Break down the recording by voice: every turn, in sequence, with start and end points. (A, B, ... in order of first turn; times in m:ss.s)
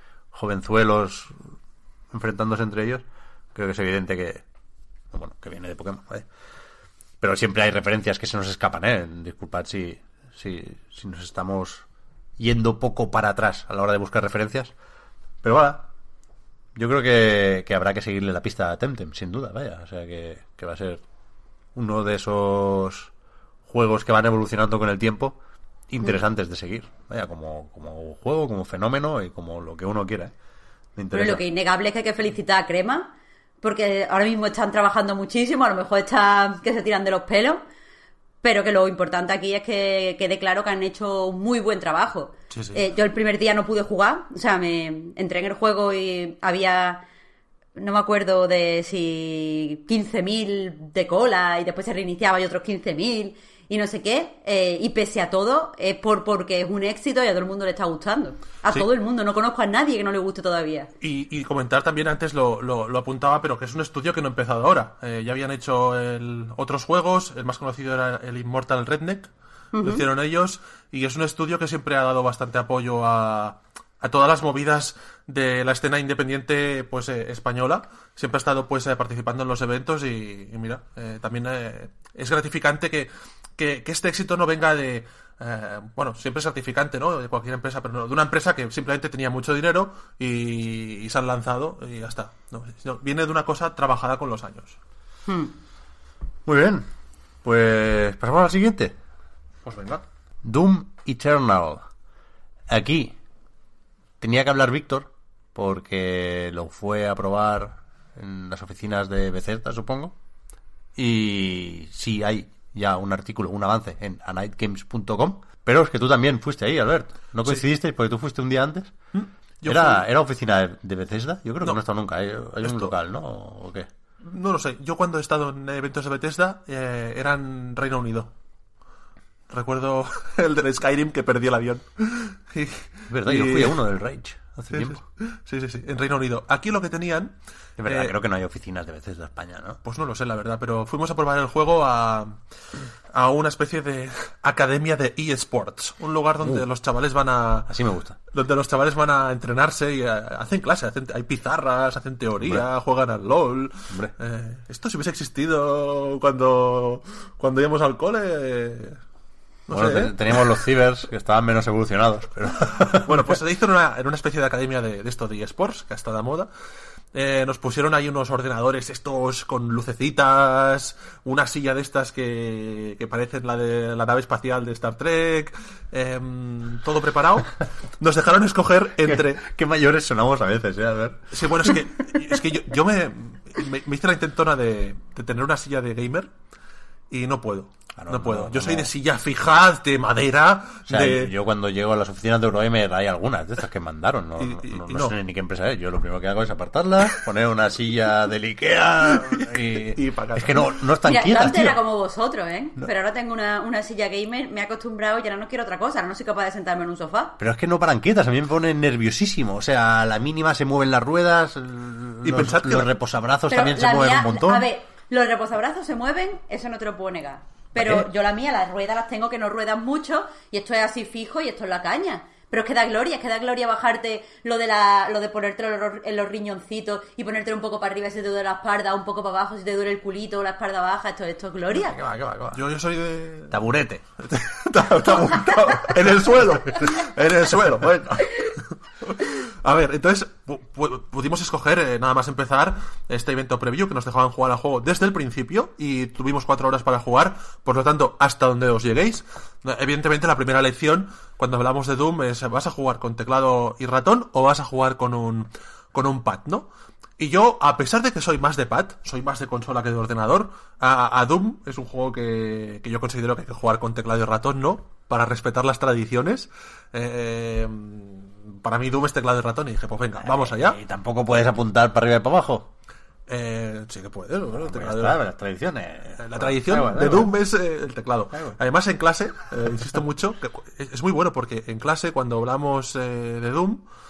0:00.3-0:01.4 A
0:02.1-0:03.0 A
0:03.6-0:04.4 A
0:05.1-0:06.3 A
0:07.2-0:11.8 A
0:12.4-0:14.7 A
0:15.4-0:15.9 A
0:16.8-0:21.0 A
0:21.8-0:23.1 A
0:23.7-0:25.4 A
0:25.9-0:30.3 A
0:31.0-0:31.4 A
0:31.1-0:37.6 B
0:38.4-0:47.0 B
0:42.5-0:42.8 C
0:47.8-1:00.9 B
1:01.0-1:09.3 C
1:09.7-1:10.0 B
1:09.8-1:34.8 C
1:36.5-1:36.9 A
1:37.4-1:38.9 A
1:39.6-1:40.0 C
1:40.4-1:41.8 A
1:42.7-1:43.2 A
1:44.2-1:50.1 A
1:51.0-1:59.0 A
1:59.1-2:00.0 C
1:59.7-2:03.9 A
2:02.6-2:02.9 C
2:04.2-2:08.3 C
2:09.5-2:13.8 C
2:13.1-2:15.0 A
2:14.7-2:17.4 C
2:17.8-2:19.8 A
2:17.9-2:18.2 C
2:19.8-2:22.4 C
2:23.1-2:27.7 C
2:27.7-2:28.2 A
2:28.3-2:39.0 C
2:39.7-2:40.6 C
2:39.7-2:43.3 A
2:42.9-2:46.5 C
2:47.1-2:59.4 C
2:59.0-3:01.7 A
3:01.3-3:06.3 C
3:07.1-3:11.3 C
3:08.0-3:08.9 A
3:10.9-3:21.8 A
3:14.4-3:15.2 C
3:19.1-3:20.7 C
3:21.0-3:27.4 B
3:27.4-3:34.6 A
3:32.2-3:32.9 C
3:33.5-3:52.0 B
3:37.8-3:38.1 A
3:51.9-3:53.7 C
3:53.5-3:54.0 A
3:54.2-4:16.7 C
4:17.2-4:30.8 C
4:30.2-4:32.7 A
4:33.3-4:35.2 C
4:34.6-4:37.3 A
4:36.2-4:43.8 C